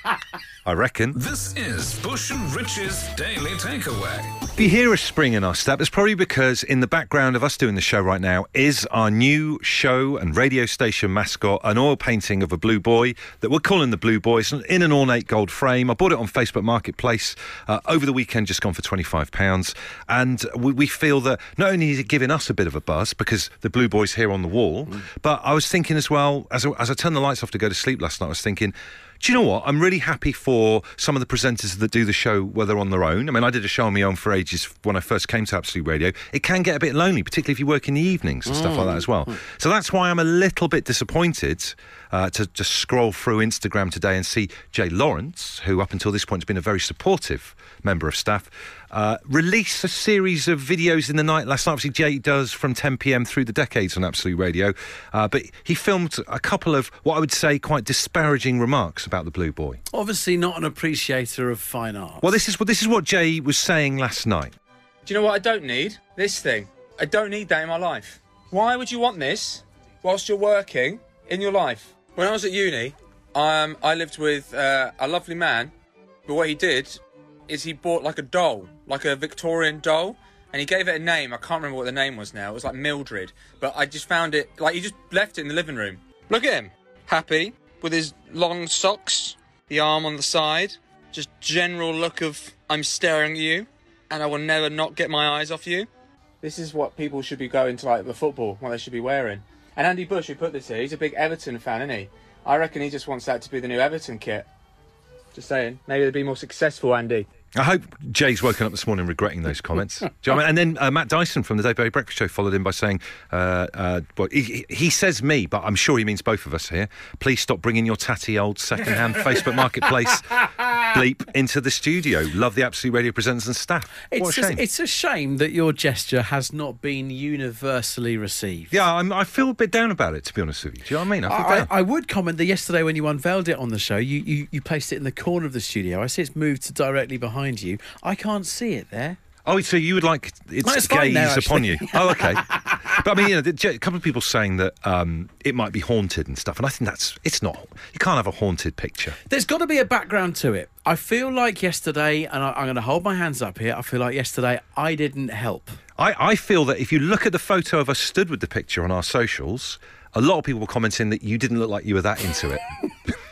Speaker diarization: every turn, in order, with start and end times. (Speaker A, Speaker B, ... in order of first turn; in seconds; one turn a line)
Speaker A: 0.7-1.2
Speaker B: 1.1-4.5
Speaker A: 4.6-59.8
Speaker C: 38.7-39.0
Speaker C: 59.9-62.3
Speaker A: 62.2-64.5
Speaker D: 65.1-75.7
Speaker D: 76.3-95.9
Speaker D: 96.4-104.5
Speaker D: 105.3-107.3
Speaker A: 107.5-124.6
Speaker C: 124.1-128.7
Speaker A: 128.7-131.7
Speaker C: 131.2-139.2
Speaker A: 139.5-149.2
Speaker C: 140.6-142.9
Speaker C: 149.3-155.8
Speaker A: 156.0-162.6